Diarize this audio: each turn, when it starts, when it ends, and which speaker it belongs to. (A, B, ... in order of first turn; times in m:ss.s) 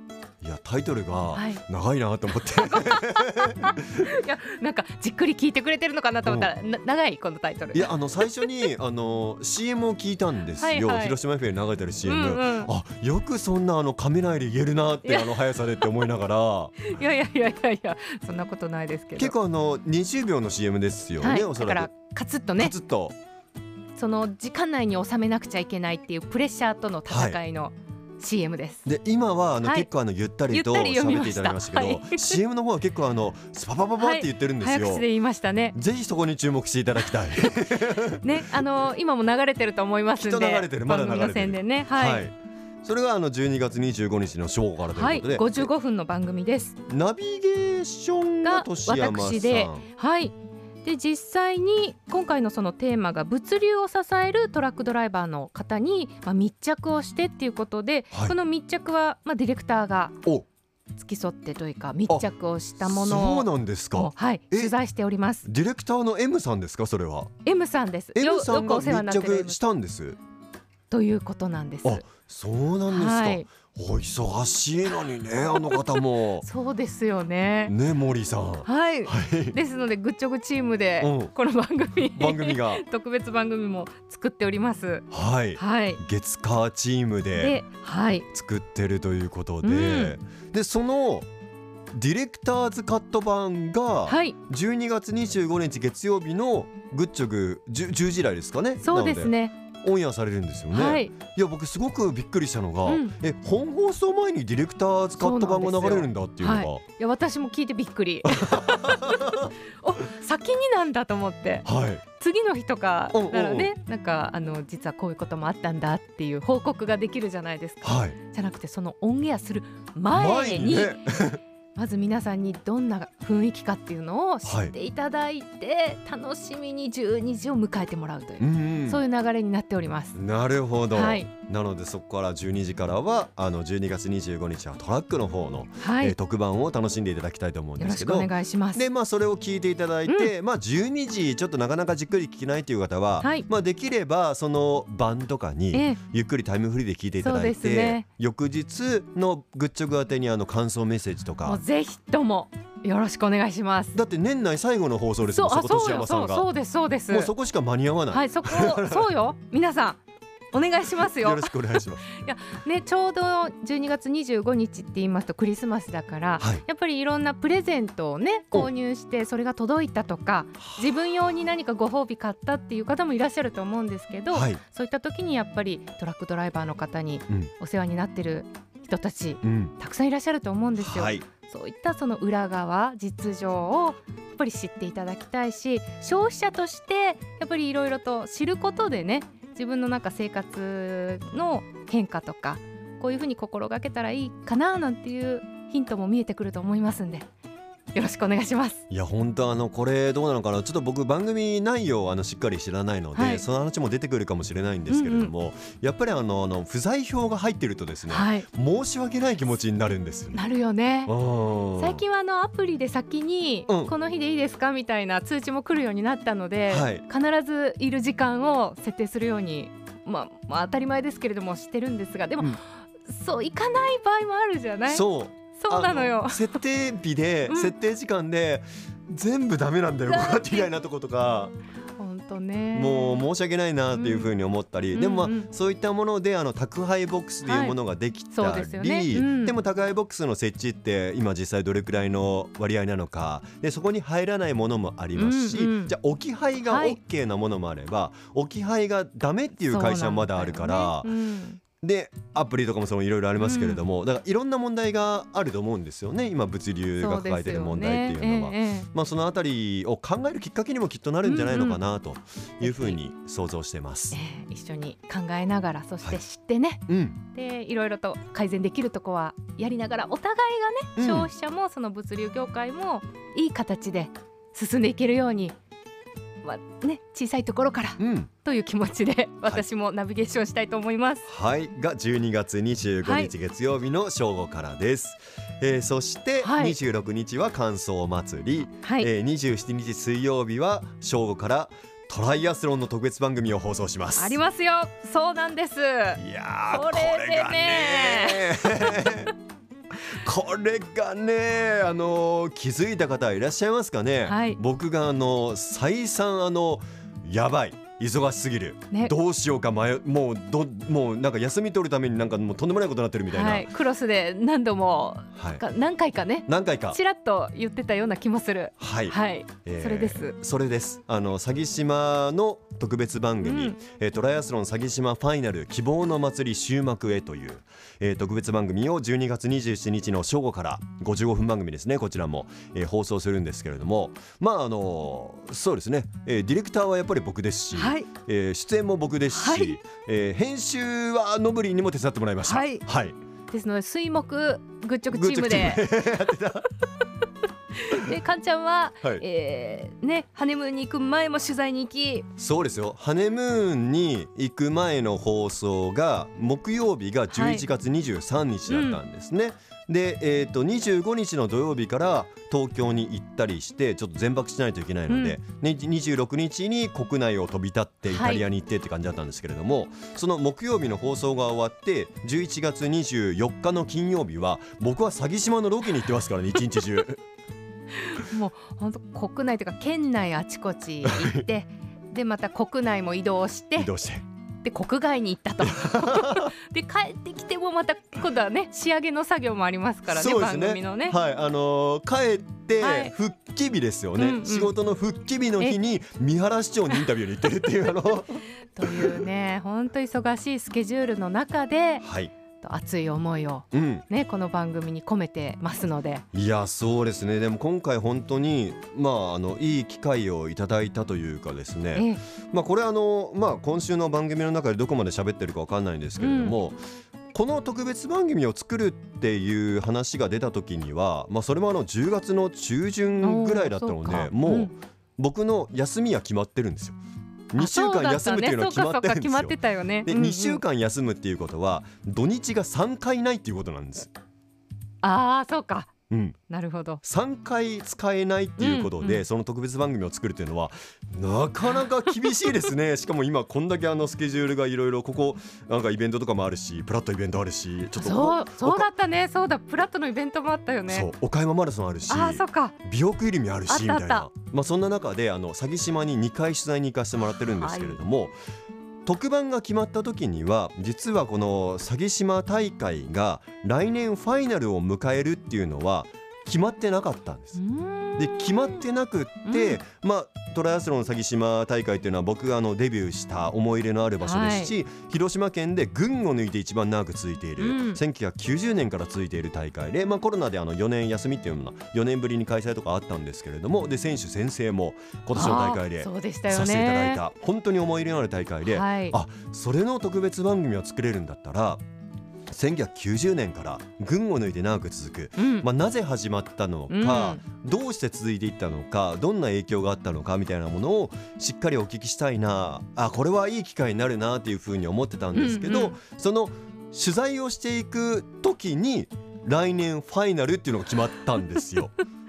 0:00.4-0:04.1 A
0:01.3-0:01.6 B
0:02.4-0:08.7 B
0:06.2-0:06.5 A
0:07.7-0:16.8 A
0:10.6-0:11.2 B
0:12.0-0:12.7 B
0:15.0-0:15.9 B
0:16.8-0:19.4 B
0:19.2-0:21.9 A
0:21.2-0:22.8 B
0:22.6-0:23.2 A
0:24.0-0:28.9 B
0:27.1-0:27.4 A
0:28.8-0:35.0 A
0:29.6-0:29.9 B
0:30.5-0:32.4 B
0:34.0-0:35.8 B
0:35.7-0:38.4 A
0:38.2-0:42.3 B
0:40.2-0:45.7 A
0:44.9-0:46.8 B
0:46.9-0:49.9 A
0:48.4-1:00.2 B
1:01.0-1:05.5 B
1:02.8-1:04.7 A
1:05.4-1:07.3 A
1:07.4-1:09.6 B
1:08.1-1:10.2 A
1:10.9-1:12.1 B
1:11.8-1:16.5 A
1:12.9-1:13.5 B
1:15.5-1:17.8 B
1:17.7-1:19.6 A
1:18.7-1:26.0 B
1:21.0-1:21.3 A
1:22.1-1:22.8 A
1:25.1-1:27.6 A
1:27.4-1:28.3 B
1:28.3-1:31.3 A
1:29.6-1:30.1 B
1:31.9-1:46.8 A
1:34.1-1:34.4 B
1:38.8-1:39.5 B
1:40.7-1:41.1 B
1:42.8-1:43.2 B
1:45.2-1:51.7 B
1:48.4-1:49.5 A
1:51.6-1:52.0 A
1:52.2-2:01.0 B
1:53.1-1:53.7 A
1:57.8-1:58.2 A
2:00.1-2:01.4 A
2:01.8-2:10.2 B
2:04.4-2:04.7 A
2:08.4-2:09.0 A
2:10.1-2:31.6 A
2:10.9-2:11.3 B
2:15.8-2:16.2 B
2:17.8-2:18.8 B
2:20.1-2:20.3 B
2:23.2-2:23.5 B
2:25.7-2:26.0 B
2:27.2-2:28.0 B
2:31.4-2:34.0 B
2:33.9-2:36.5 A
2:35.2-2:37.3 B
2:37.1-2:39.1 A
2:38.1-2:40.0 B
2:40.5-3:17.3 B
2:41.2-2:42.2 A
2:50.6-2:50.8 A
2:54.3-2:54.6 A
2:59.4-2:59.7 A
3:00.8-3:01.3 A
3:17.9-3:18.8 B
3:18.9-3:30.4 A
3:23.2-3:23.4 B
3:24.9-3:25.3 B
3:28.1-3:28.5 B
3:30.3-3:31.1 B
3:31.1-3:32.0 A
3:31.8-3:45.0 B
3:33.7-3:33.9 A
3:36.7-3:37.0 A
3:44.9-3:51.5 A
3:45.6-3:46.6 B
3:47.5-3:47.7 B
3:50.1-3:50.7 B
3:52.0-3:53.3 B
3:52.7-4:11.1 A
3:53.9-3:54.3 B
3:54.9-3:55.5 B
3:57.5-3:57.8 B
3:58.3-3:59.6 B
4:05.2-4:06.0 B
4:06.7-4:07.0 B
4:09.7-4:11.6 B
4:11.8-4:24.2 A
4:13.4-4:13.8 B
4:17.0-4:18.9 B
4:21.2-4:21.8 B
4:22.6-4:23.0 B
4:24.1-4:35.6 B
4:26.9-4:27.2 A
4:31.0-4:31.3 A
4:36.4-4:41.2 B
4:38.0-4:38.3 A
4:41.2-4:54.4 A
4:43.0-4:43.3 B
4:46.4-4:46.8 B
4:48.8-4:49.1 B
4:54.2-4:59.1 B
4:56.2-4:59.3 A
5:00.0-5:13.7 A
5:04.3-5:04.6 B
5:13.3-5:20.3 B
5:15.4-5:15.6 A
5:16.5-5:17.0 A
5:18.8-5:43.2 A
5:23.4-5:23.8 B
5:37.7-5:38.1 B
5:39.3-5:39.8 B
5:42.4-5:42.8 B
5:43.5-5:45.9 B
5:45.1-5:46.7 A
5:47.8-5:52.3 B
5:52.4-6:17.2 A
5:57.3-5:57.7 B
5:58.7-5:59.0 B
6:05.1-6:05.4 B
6:08.1-6:08.4 B
6:18.1-6:23.9 B
6:21.1-6:21.4 A
6:23.8-6:24.2 A
6:24.6-6:31.2 B
6:25.6-6:26.5 A
6:30.1-6:39.2 A
6:32.8-6:33.1 B
6:34.2-6:34.7 B
6:38.8-6:42.0 B
6:42.0-6:42.3 A
6:42.6-6:46.2 B
6:43.7-6:44.0 A
6:46.3-6:56.8 A
6:51.9-6:52.2 B
6:56.2-6:56.6 B
6:57.3-7:07.0 A
7:03.2-7:04.7 B
7:07.5-7:14.1 A
7:07.6-7:10.6 B
7:15.0-7:15.9 B
7:16.1-7:16.4 A
7:16.5-7:17.0 B
7:17.0-7:28.9 A
7:18.6-7:19.2 B
7:22.2-7:22.5 B
7:28.0-7:31.1 B
7:30.9-7:38.4 A
7:32.1-7:32.8 B
7:33.7-7:34.3 B
7:37.3-7:38.0 B
7:39.0-7:47.6 A
7:47.6-7:48.8 B
7:48.2-8:11.8 A
7:49.5-7:49.8 B
7:54.2-7:54.7 B
7:57.6-7:58.0 B
8:05.3-8:07.2 B
8:08.6-8:09.2 B
8:12.5-8:32.0 A
8:15.4-8:15.7 B
8:16.9-8:17.4 B
8:25.3-8:26.0 B